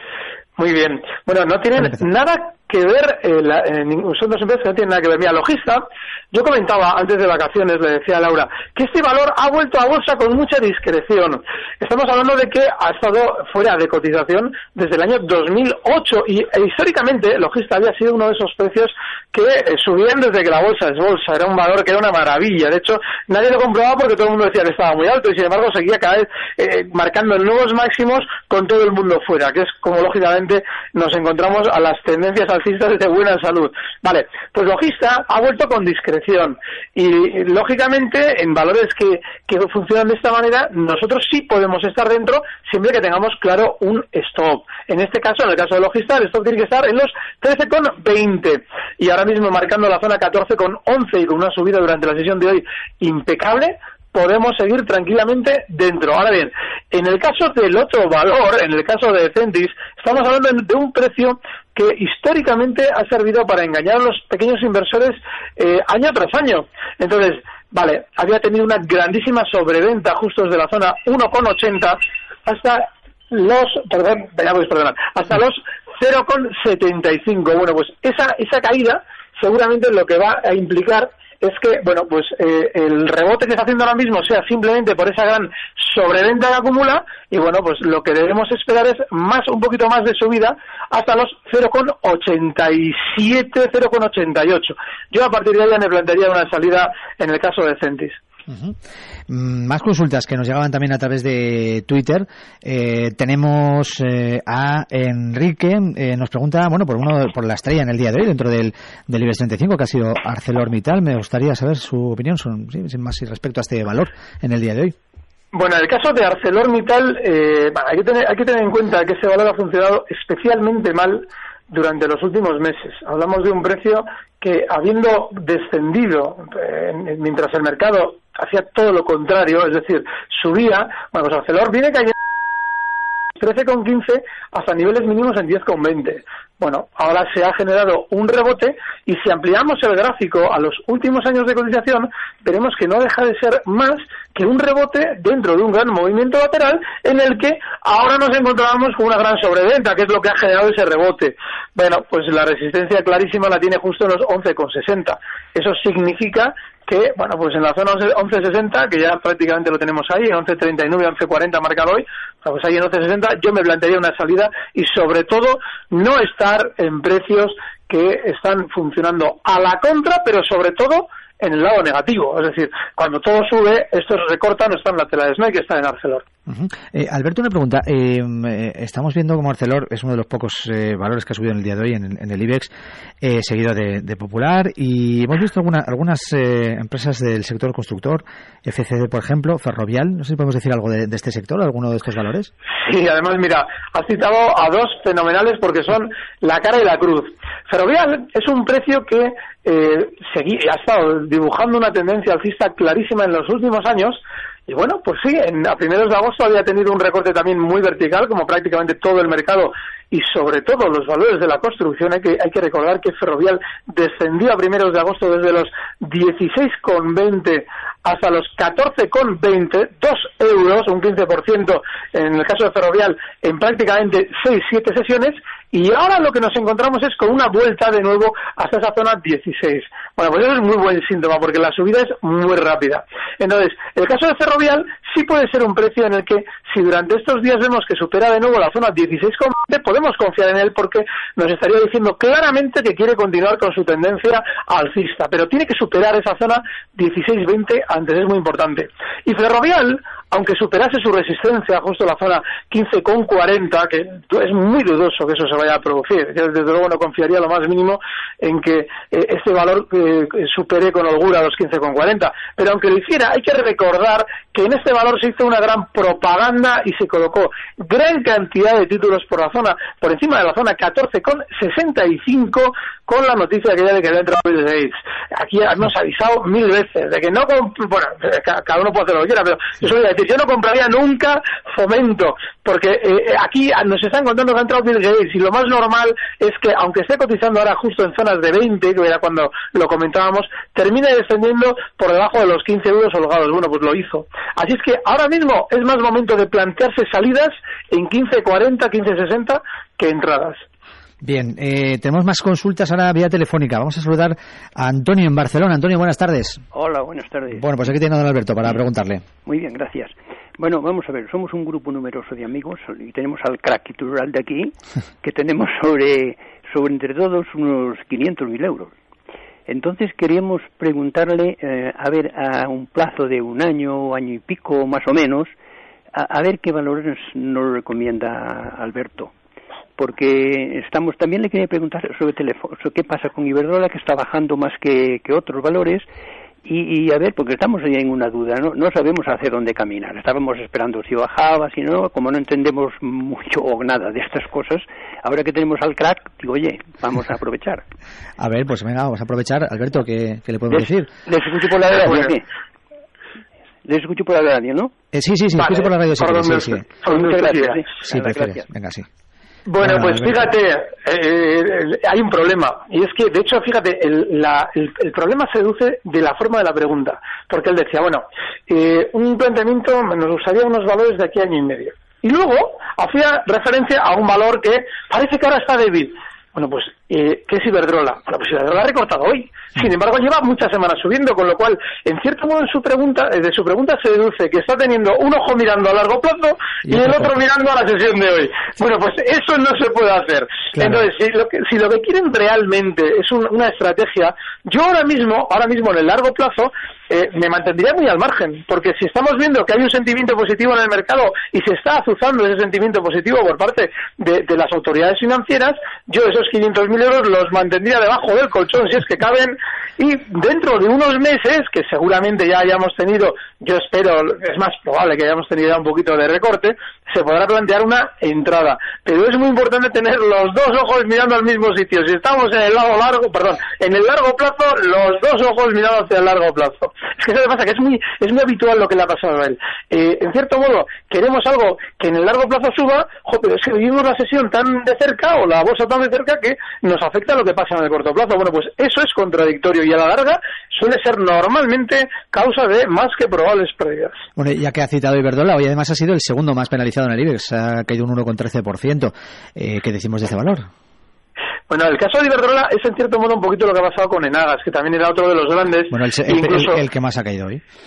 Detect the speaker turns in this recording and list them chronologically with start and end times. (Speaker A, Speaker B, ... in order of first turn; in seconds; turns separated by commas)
Speaker A: 0.6-98.2, Speaker B: 98.5-98.8, Speaker B: 99.3-114.9, Speaker A: 115.5-132.1, Speaker A: 133.4-176.2, Speaker B: 176.5-182.7, Speaker B: 183.2-192.5, Speaker A: 192.8-300.6, Speaker B: 301.2-306.6, Speaker C: 306.7-307.7, Speaker B: 307.5-309.2, Speaker C: 309.4-318.9, Speaker C: 319.7-325.5, Speaker C: 326.1-329.3, Speaker C: 330.0-336.1, Speaker C: 336.6-347.8, Speaker B: 348.4-351.1, Speaker C: 350.7-352.4, Speaker A: 352.0-352.3, Speaker C: 353.8-354.9, Speaker B: 355.1-356.8, Speaker A: 355.6-357.8, Speaker C: 357.1-358.6, Speaker B: 358.0-359.1, Speaker A: 359.7-444.2, Speaker B: 359.8-360.4, Speaker B: 386.9-387.3, Speaker B: 390.7-391.1, Speaker B: 444.4-450.7, Speaker A: 451.7-456.8, Speaker B: 455.9-457.6